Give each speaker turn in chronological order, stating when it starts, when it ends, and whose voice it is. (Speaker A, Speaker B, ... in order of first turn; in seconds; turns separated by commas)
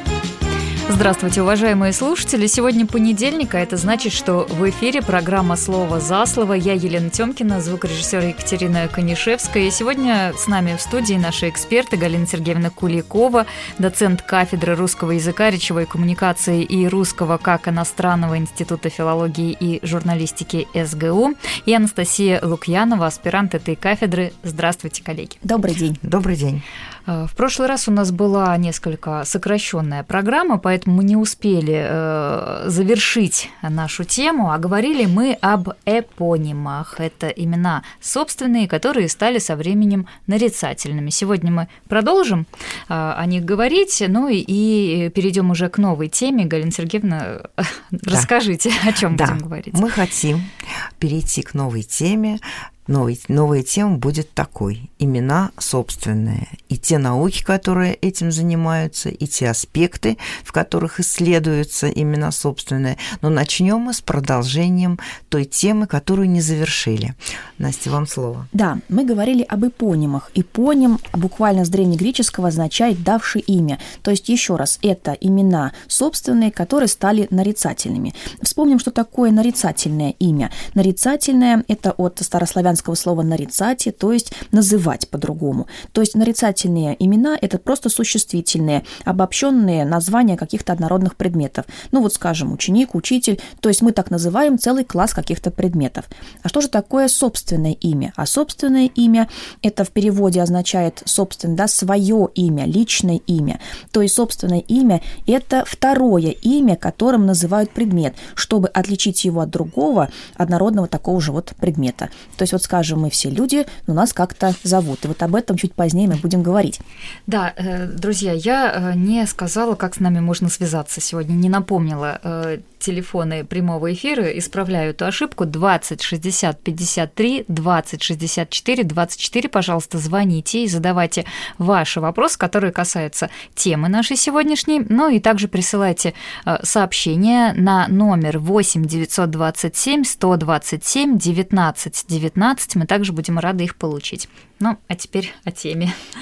Speaker A: 0.9-25.4, Speaker B: 25.4-26.0, Speaker C: 26.0-26.6, Speaker A: 27.1-49.8, Speaker C: 49.1-68.5, Speaker B: 68.5-116.8, Speaker A: 117.3-145.9